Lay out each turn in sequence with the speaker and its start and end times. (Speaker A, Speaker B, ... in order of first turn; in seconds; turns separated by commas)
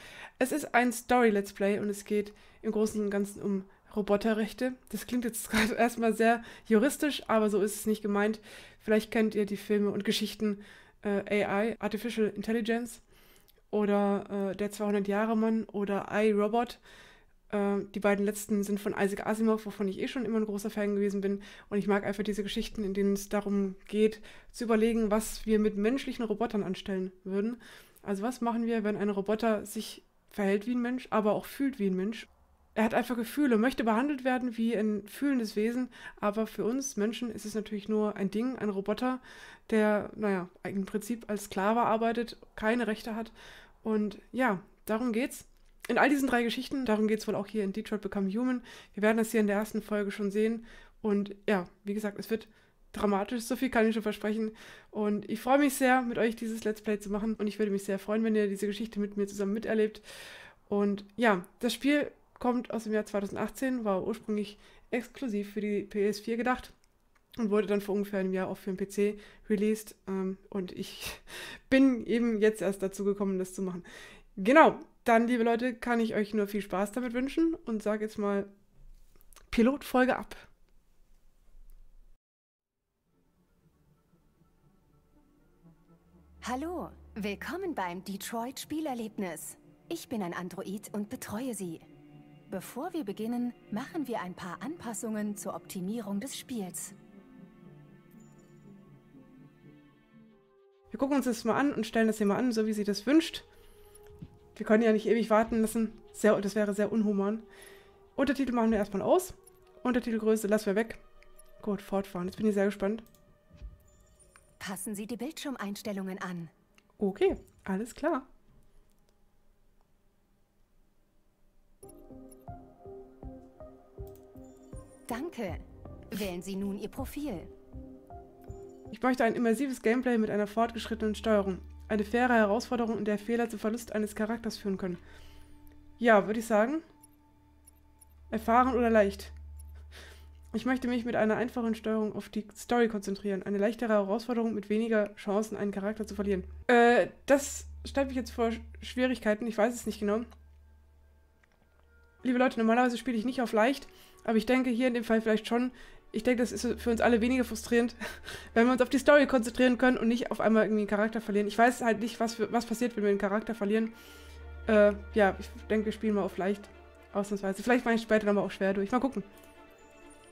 Speaker A: 0.4-13.0, Speaker A: 13.7-16.8, Speaker A: 17.5-60.0, Speaker A: 60.7-66.7, Speaker A: 67.4-78.5, Speaker A: 79.5-80.5, Speaker B: 86.4-91.9, Speaker B: 92.5-97.0, Speaker A: 100.9-103.5, Speaker A: 104.5-107.5, Speaker A: 108.2-111.0, Speaker A: 111.6-113.0, Speaker B: 114.6-116.5, Speaker A: 117.0-118.3, Speaker B: 125.1-127.5, Speaker A: 128.9-135.0, Speaker A: 136.0-136.8, Speaker A: 138.3-139.3, Speaker A: 140.5-150.3, Speaker A: 152.2-158.0, Speaker A: 158.5-163.9, Speaker A: 164.7-169.3